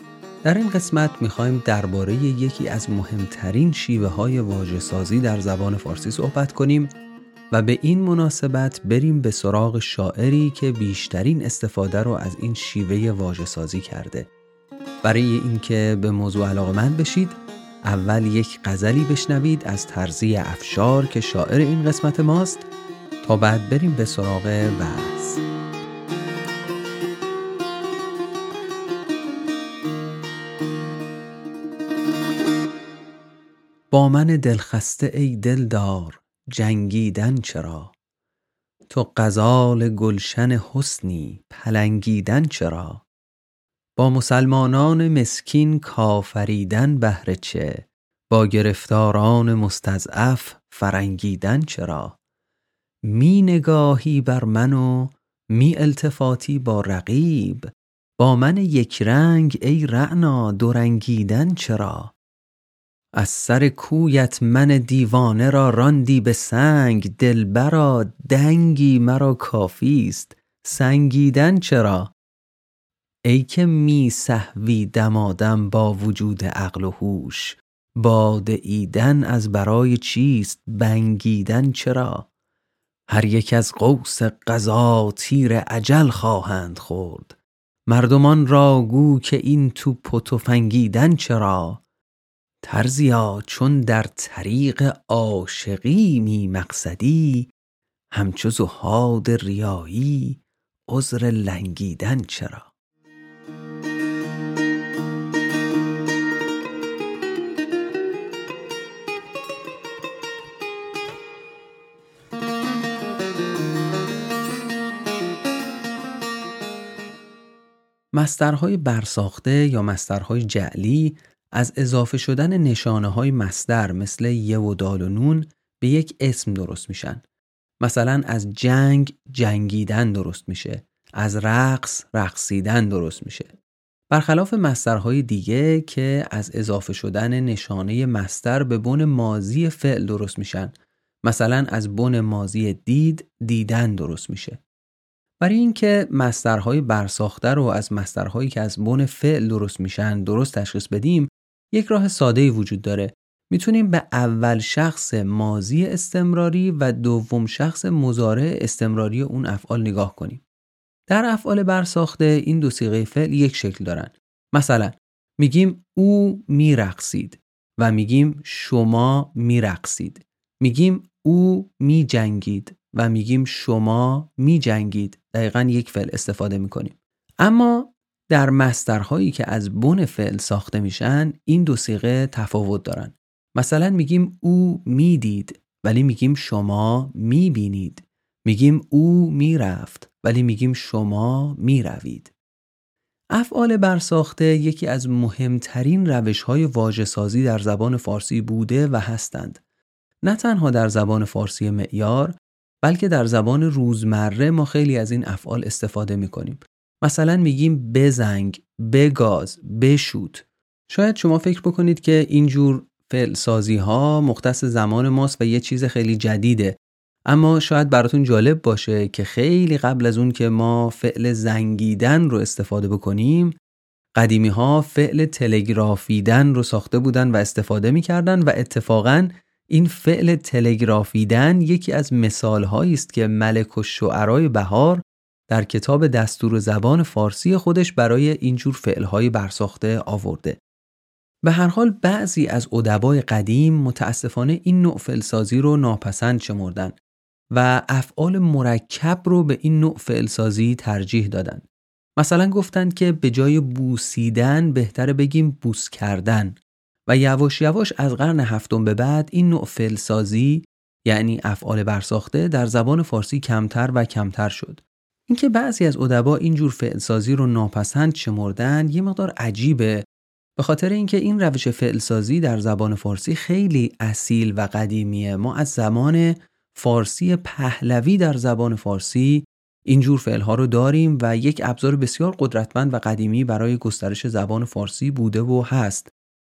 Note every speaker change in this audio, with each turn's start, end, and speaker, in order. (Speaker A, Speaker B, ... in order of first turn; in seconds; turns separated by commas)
Speaker A: 0.4-6.9, Speaker A: 7.5-14.3, Speaker A: 15.0-22.7, Speaker A: 23.2-25.4, Speaker A: 33.9-37.9, Speaker A: 38.9-43.0, Speaker A: 44.0-52.2, Speaker A: 53.1-62.1, Speaker A: 63.2-72.1, Speaker A: 73.3-82.3, Speaker A: 83.1-87.4, Speaker A: 87.9-91.8, Speaker A: 92.6-97.5, Speaker A: 98.1-102.7, Speaker A: 118.1-127.2, Speaker A: 127.8-133.5, Speaker A: 134.1-140.7, Speaker A: 141.2-144.6, Speaker A: 145.4-160.4, Speaker A: 161.1-192.3, Speaker A: 193.3-199.6, Speaker A: 200.2-223.5, Speaker A: 224.2-240.6, Speaker A: 241.4-246.9, Speaker A: 247.5-251.6, Speaker A: 252.2-270.0, Speaker A: 270.6-286.1